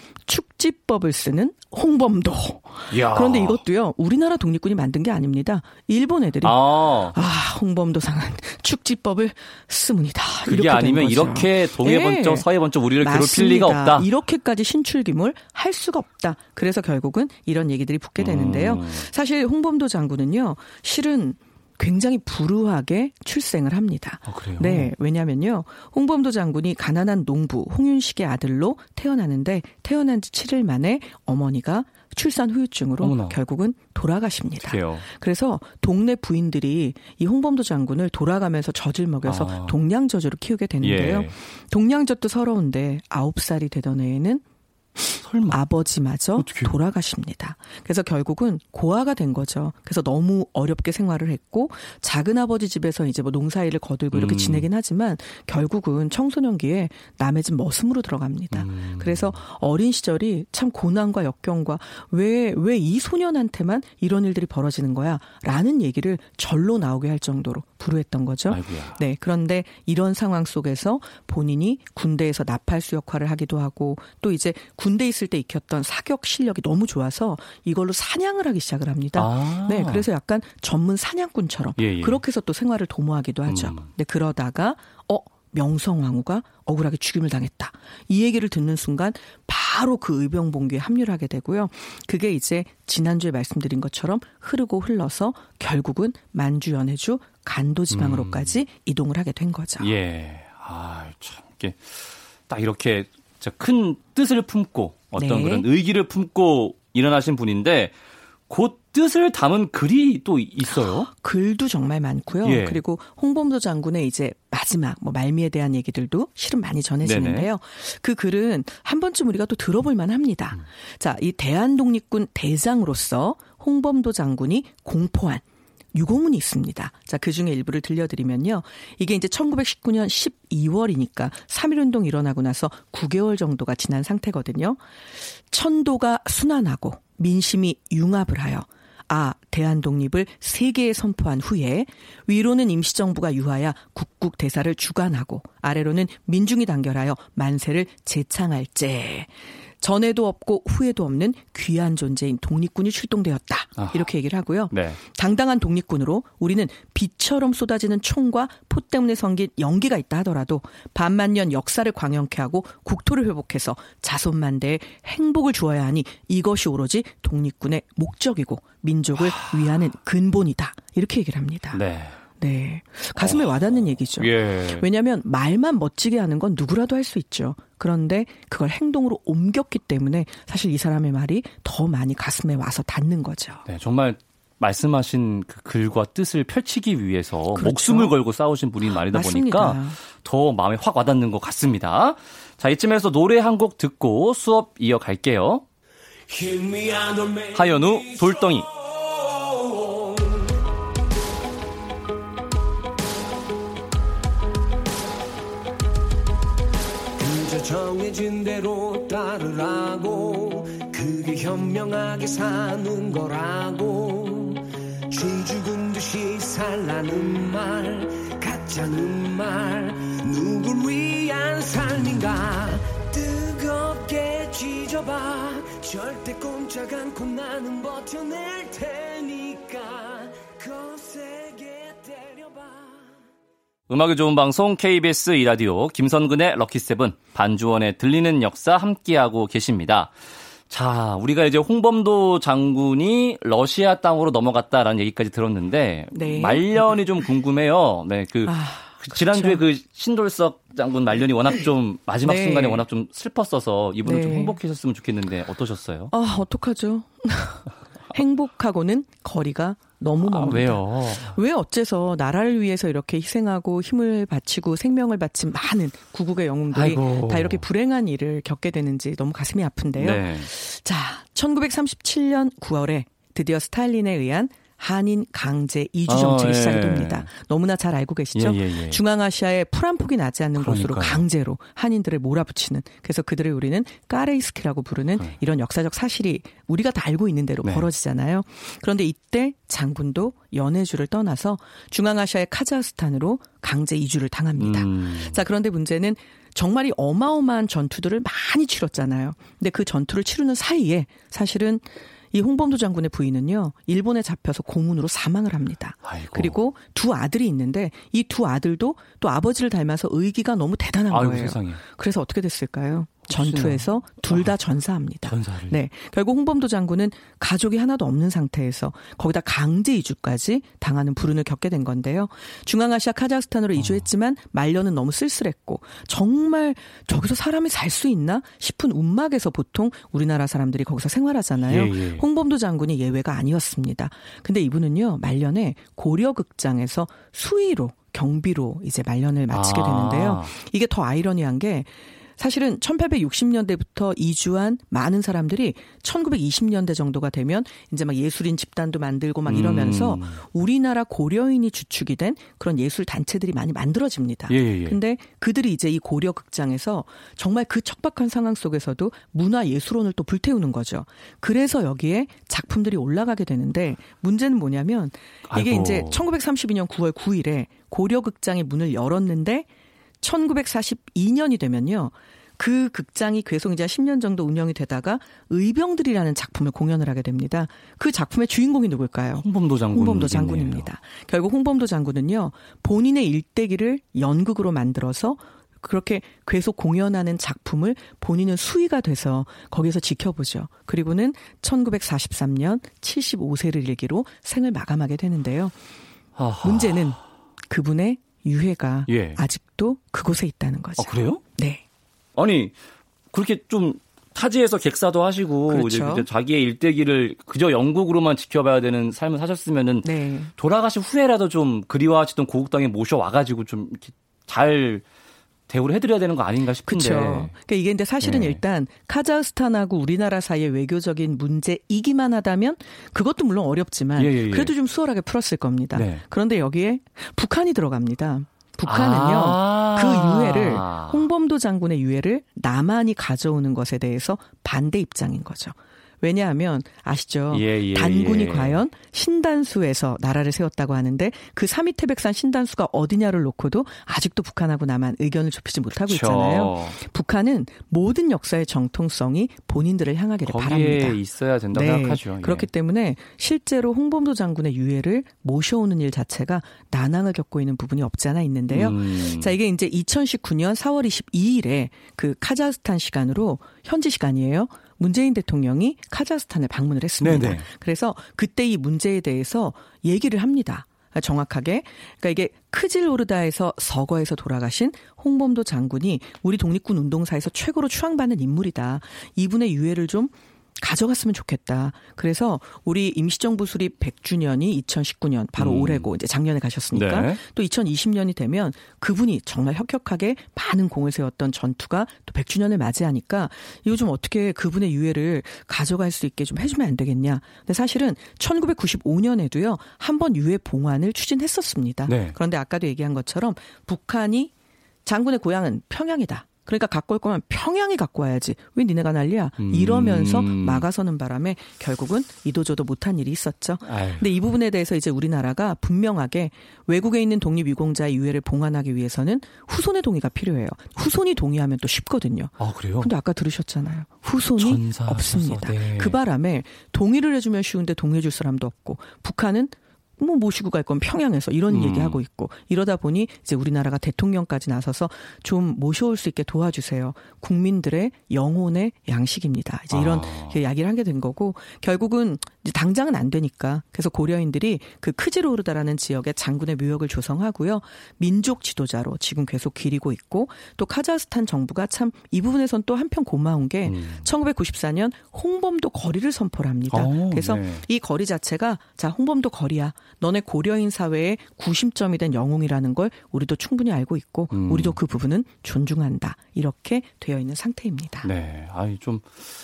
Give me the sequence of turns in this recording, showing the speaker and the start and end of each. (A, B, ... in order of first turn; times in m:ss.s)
0:00.3-0:44.4 A
0:02.9-0:03.6 B
0:06.4-0:07.2 B
0:10.4-0:14.1 B
0:18.2-0:19.1 B
0:24.2-0:24.9 B
0:33.0-0:33.4 B
0:34.6-0:35.0 B
0:39.2-0:39.8 B
0:40.8-0:41.3 B
0:45.0-1:39.9 A
0:45.2-0:45.6 B
0:46.4-0:46.7 B
0:54.1-0:54.7 B
0:58.5-0:59.4 B
1:08.5-1:09.0 B
1:19.1-1:20.1 B
1:21.8-1:22.2 B
1:23.4-1:23.9 B
1:37.9-1:38.6 B
1:39.8-1:47.9 B
1:45.1-1:45.7 A
1:48.5-1:51.1 B
1:50.7-2:14.8 A
1:52.4-1:52.8 B
1:57.0-1:57.5 B
2:15.5-2:51.8 A
2:33.8-2:34.1 B
2:34.7-2:35.0 B
2:51.7-2:52.2 B
2:52.4-3:03.6 A
2:54.2-2:54.8 B
3:03.6-3:15.6 B
3:07.5-3:08.2 A
3:08.9-3:10.0 A
3:16.3-3:20.4 C
3:17.5-3:18.7 B
3:27.2-3:53.0 C
3:53.9-4:00.1 B
4:00.7-4:16.1 B
4:06.1-4:07.0 A
4:08.4-4:09.6 A
4:12.2-4:12.8 A
4:14.0-4:14.6 A
4:16.1-6:09.7 A
4:20.2-4:21.4 B
4:26.7-4:27.6 B
4:30.0-4:30.5 B
4:36.1-4:37.3 B
4:38.3-4:39.0 B
4:40.6-4:41.2 B
4:54.6-4:55.4 B
5:06.0-5:06.6 B
5:11.1-5:11.8 B
5:13.3-5:14.5 B
5:15.2-5:15.8 B
5:23.8-5:24.0 B
5:31.6-5:32.2 B
5:39.5-5:40.5 B
5:49.4-5:50.4 B
5:54.5-5:55.0 B
6:05.5-6:06.2 B
6:10.2-6:35.7 A
6:19.4-6:20.9 B
6:36.4-6:37.2 B
6:36.6-6:41.8 A
6:39.1-6:39.4 B
6:41.0-6:41.4 B
6:42.4-6:42.7 B
6:43.3-6:55.0 B
6:45.7-6:46.3 A
6:50.0-6:50.5 A
6:55.7-6:57.5 B
6:56.9-7:31.2 A
6:58.2-6:58.6 B
7:04.2-7:04.7 B
7:05.9-7:06.2 B
7:08.8-7:11.3 B
7:17.5-7:18.8 B
7:26.1-7:27.0 B
7:30.4-7:32.7 B
7:31.7-8:24.5 A
7:38.7-7:39.6 B
7:47.2-7:47.7 B
8:05.5-8:06.1 B
8:06.9-8:07.4 B
8:22.1-8:22.4 B
8:25.0-9:28.3 A
8:29.6-8:30.8 B
8:33.8-8:34.3 B
8:42.6-8:43.1 B
8:44.6-8:46.2 B
8:51.7-8:52.2 B
8:59.9-9:00.6 B
9:13.8-9:14.3 B
9:16.9-9:17.8 B
9:24.5-9:25.0 B
9:28.2-9:29.3 B